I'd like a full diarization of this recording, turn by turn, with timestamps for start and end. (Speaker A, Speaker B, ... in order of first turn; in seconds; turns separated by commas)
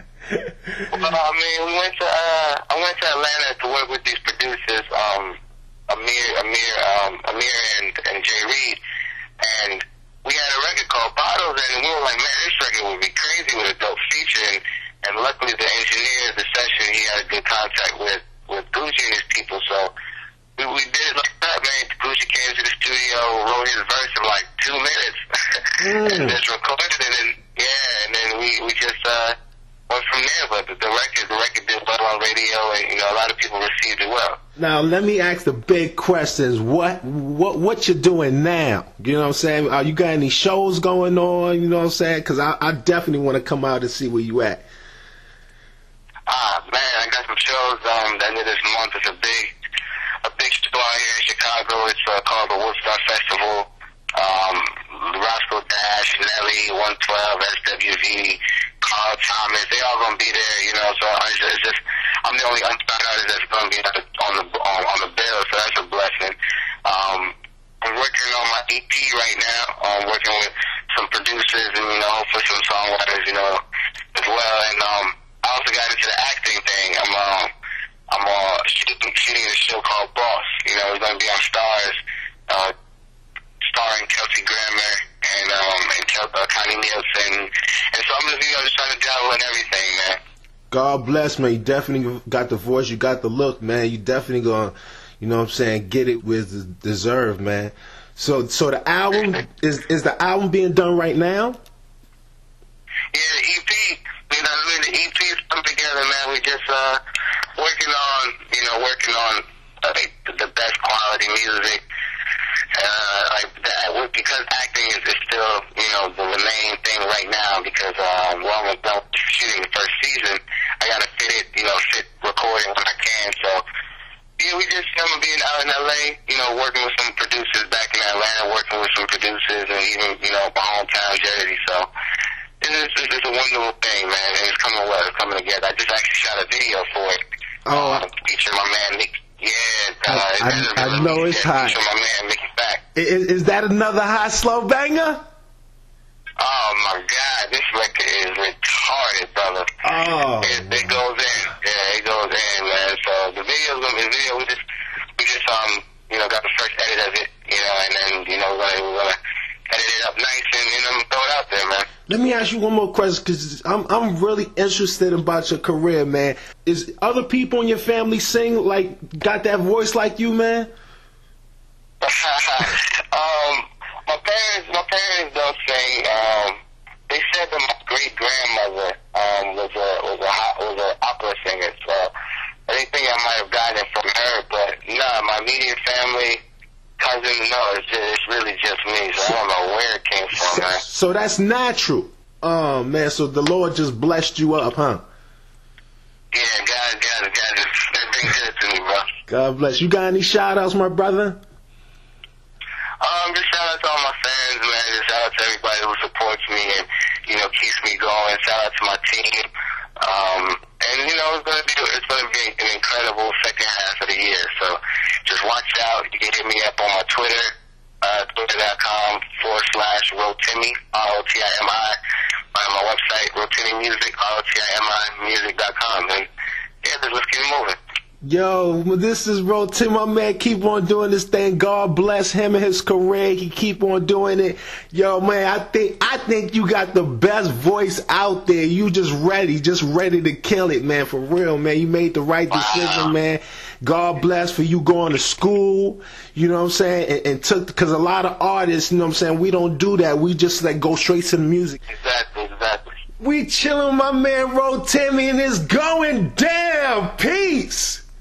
Speaker A: 0.3-1.0, Speaker B: 0.9-8.8, Speaker B: 9.4-19.9, Speaker B: 20.6-29.4, Speaker A: 25.8-26.4, Speaker B: 29.9-34.4, Speaker A: 34.6-44.6, Speaker B: 46.3-49.5, Speaker B: 50.2-73.6, Speaker B: 74.1-77.5, Speaker B: 78.1-82.7, Speaker B: 83.6-90.2, Speaker A: 90.7-101.6, Speaker B: 99.1-99.4, Speaker B: 103.1-107.0, Speaker B: 107.6-111.8, Speaker B: 112.7-123.6, Speaker B: 124.4-131.9, Speaker B: 132.6-137.2, Speaker A: 137.7-138.1, Speaker B: 137.7-142.8, Speaker A: 140.1-141.8, Speaker A: 142.9-145.2, Speaker B: 146.4-149.7, Speaker A: 149.8-151.0, Speaker B: 150.4-154.6, Speaker B: 155.2-159.2, Speaker B: 159.7-161.9, Speaker A: 162.1-170.7, Speaker B: 172.0-176.6, Speaker B: 177.1-182.1, Speaker B: 182.7-186.4, Speaker B: 187.0-190.8, Speaker A: 190.3-195.0, Speaker B: 196.3-199.1, Speaker A: 199.3-201.4, Speaker B: 203.0-221.9, Speaker B: 222.5-226.3, Speaker B: 226.8-227.8, Speaker A: 228.2-251.8, Speaker B: 242.5-243.1, Speaker B: 251.9-252.9, Speaker A: 253.2-258.0